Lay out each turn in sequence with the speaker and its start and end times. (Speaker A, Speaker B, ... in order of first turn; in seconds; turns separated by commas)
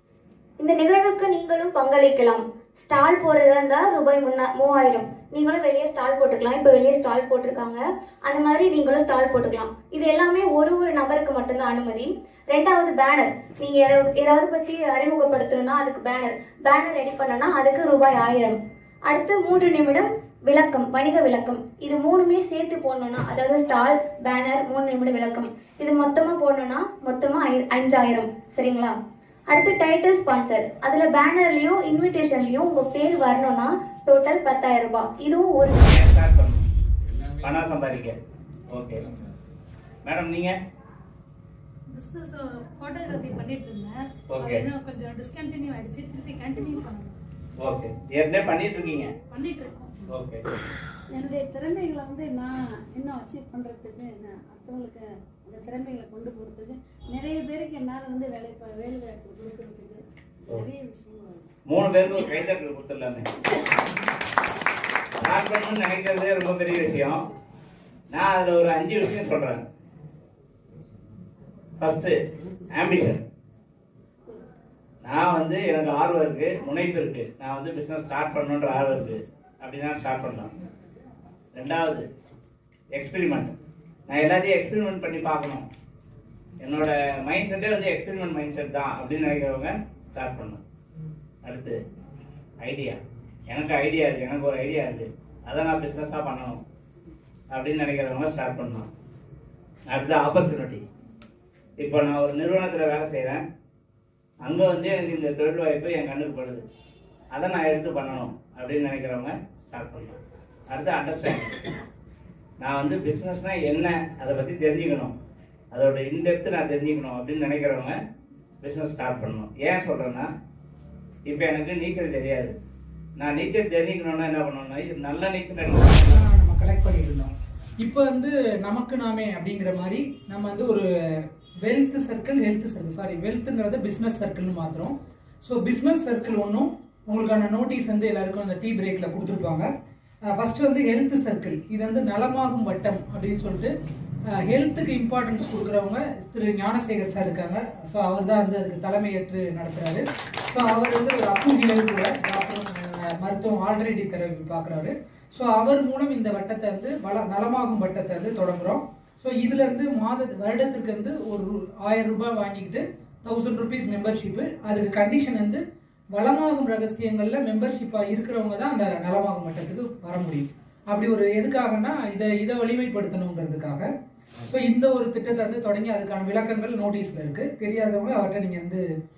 Speaker A: 0.6-28.9, Speaker A: 29.5-35.8, Speaker B: 35.9-36.6, Speaker B: 37.4-38.1, Speaker B: 38.7-39.1, Speaker B: 40.0-40.5, Speaker C: 41.9-47.1, Speaker B: 44.3-44.7, Speaker B: 47.6-49.1, Speaker C: 49.3-50.0, Speaker B: 50.1-50.4, Speaker D: 51.1-61.5, Speaker B: 61.7-63.3, Speaker B: 65.2-67.2, Speaker B: 68.1-69.6, Speaker B: 71.8-72.1, Speaker B: 72.7-73.2, Speaker B: 75.0-80.5, Speaker B: 81.5-82.0, Speaker B: 82.9-83.5, Speaker B: 84.1-85.7, Speaker B: 86.6-90.6, Speaker B: 91.4-91.8, Speaker B: 92.6-96.6, Speaker B: 97.5-98.9, Speaker B: 99.9-100.8, Speaker B: 101.8-103.4, Speaker B: 104.4-106.6, Speaker B: 107.3-110.2, Speaker B: 110.7-111.5, Speaker B: 112.6-115.1, Speaker B: 115.7-118.0, Speaker B: 118.6-120.3, Speaker B: 121.2-122.5, Speaker B: 123.2-126.2, Speaker E: 126.1-139.7, Speaker E: 140.3-143.7, Speaker E: 144.3-165.6, Speaker E: 166.1-173.9, Speaker E: 174.4-178.8